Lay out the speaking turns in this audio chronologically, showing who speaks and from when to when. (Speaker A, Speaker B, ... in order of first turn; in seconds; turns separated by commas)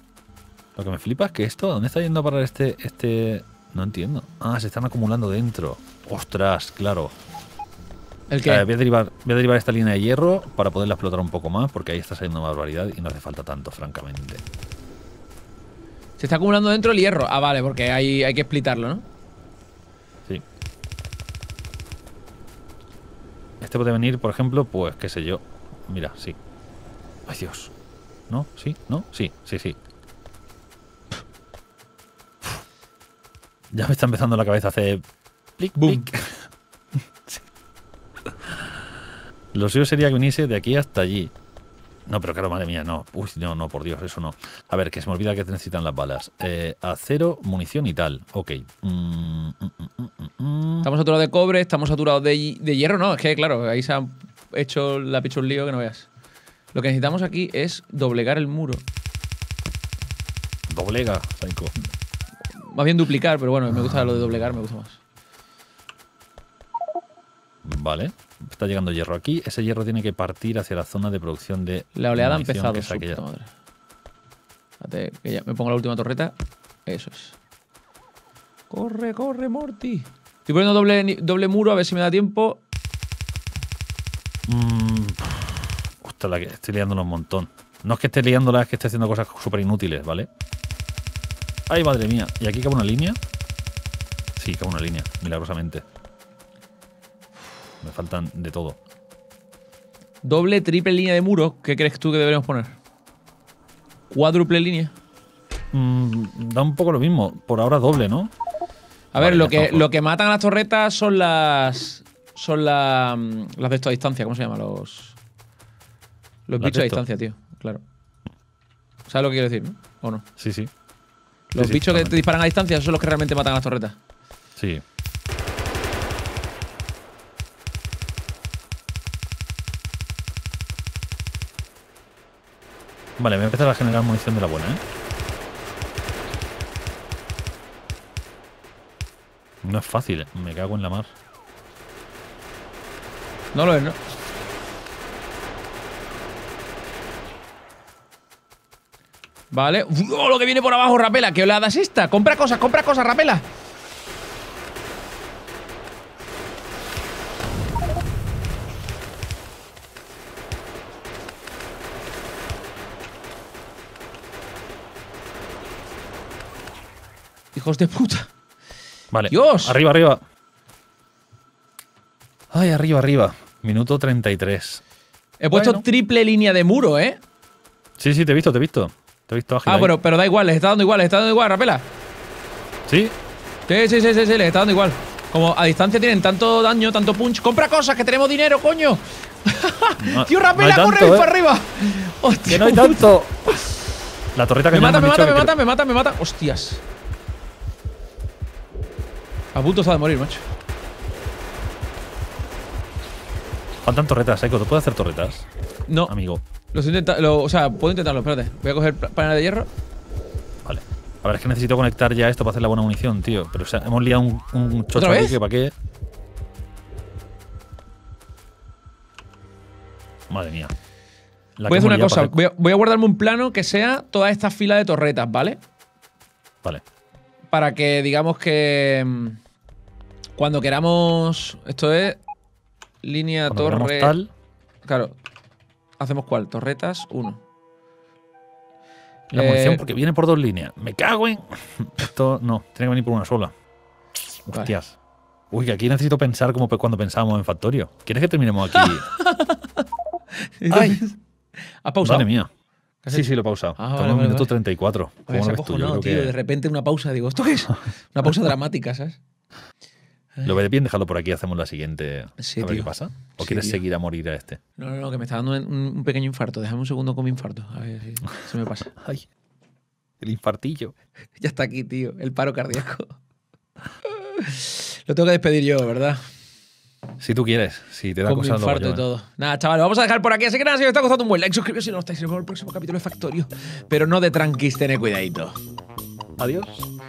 Speaker A: 0.8-7.2, Speaker B: 8.3-8.7, Speaker A: 8.4-14.4, Speaker B: 16.2-19.1, Speaker A: 23.6-26.4, Speaker A: 27.3-27.7, Speaker A: 28.3-29.8, Speaker A: 33.7-35.0, Speaker A: 35.6-36.5, Speaker B: 35.8-36.1, Speaker A: 38.3-38.9, Speaker A: 39.5-41.3, Speaker A: 42.1-50.9, Speaker B: 50.8-56.1, Speaker B: 56.7-58.8, Speaker A: 60.7-61.8, Speaker B: 62.6-65.0, Speaker A: 67.6-73.2, Speaker B: 72.0-73.5, Speaker B: 74.8-76.3, Speaker B: 76.9-77.4, Speaker B: 78.7-82.6, Speaker A: 84.5-90.3, Speaker A: 91.7-93.2, Speaker A: 94.4-95.8, Speaker A: 97.8-98.8, Speaker B: 100.2-102.8, Speaker B: 104.1-104.9, Speaker A: 105.7-108.3, Speaker B: 109.1-115.2, Speaker A: 109.2-109.9, Speaker B: 116.5-117.8, Speaker A: 116.6-117.0, Speaker B: 119.1-120.2, Speaker A: 120.4-120.7, Speaker B: 121.5-124.0, Speaker A: 121.6-122.2, Speaker A: 124.6-124.8, Speaker A: 133.2-134.8, Speaker A: 139.6-141.1, Speaker B: 143.5-144.0, Speaker B: 149.5-153.4, Speaker B: 167.5-168.3, Speaker A: 169.1-170.2, Speaker B: 169.3-169.8, Speaker A: 172.5-174.8, Speaker B: 175.4-177.2, Speaker A: 175.5-175.8, Speaker A: 178.0-179.9, Speaker B: 179.7-181.9, Speaker A: 182.9-183.2, Speaker B: 183.7-193.6, Speaker A: 190.0-191.3, Speaker A: 192.5-193.5, Speaker A: 194.3-195.5, Speaker B: 194.7-196.8, Speaker B: 199.5-200.4, Speaker A: 203.8-205.5, Speaker B: 205.9-206.1, Speaker A: 206.1-206.4, Speaker B: 206.7-209.7, Speaker A: 210.6-215.8, Speaker B: 214.9-215.4, Speaker A: 220.3-220.7, Speaker A: 221.6-222.3, Speaker B: 221.7-225.6, Speaker B: 227.5-229.4, Speaker B: 230.4-232.2, Speaker B: 233.0-234.2, Speaker A: 233.5-234.3, Speaker B: 234.9-235.1, Speaker B: 236.0-237.4, Speaker A: 239.3-243.5, Speaker B: 239.3-239.8, Speaker A: 244.5-244.9, Speaker A: 245.5-249.1, Speaker B: 248.7-249.8, Speaker B: 250.4-251.2, Speaker A: 250.7-251.0, Speaker B: 251.8-252.3, Speaker A: 252.0-252.5, Speaker B: 253.0-254.5, Speaker A: 253.1-256.3, Speaker B: 255.3-259.2, Speaker B: 260.4-260.6, Speaker A: 260.4-264.6, Speaker B: 262.4-263.8, Speaker B: 264.8-269.0, Speaker A: 269.0-269.3, Speaker A: 270.2-270.9, Speaker B: 271.4-273.1, Speaker B: 274.1-276.2, Speaker A: 277.2-279.1, Speaker B: 278.3-285.6, Speaker A: 286.4-286.9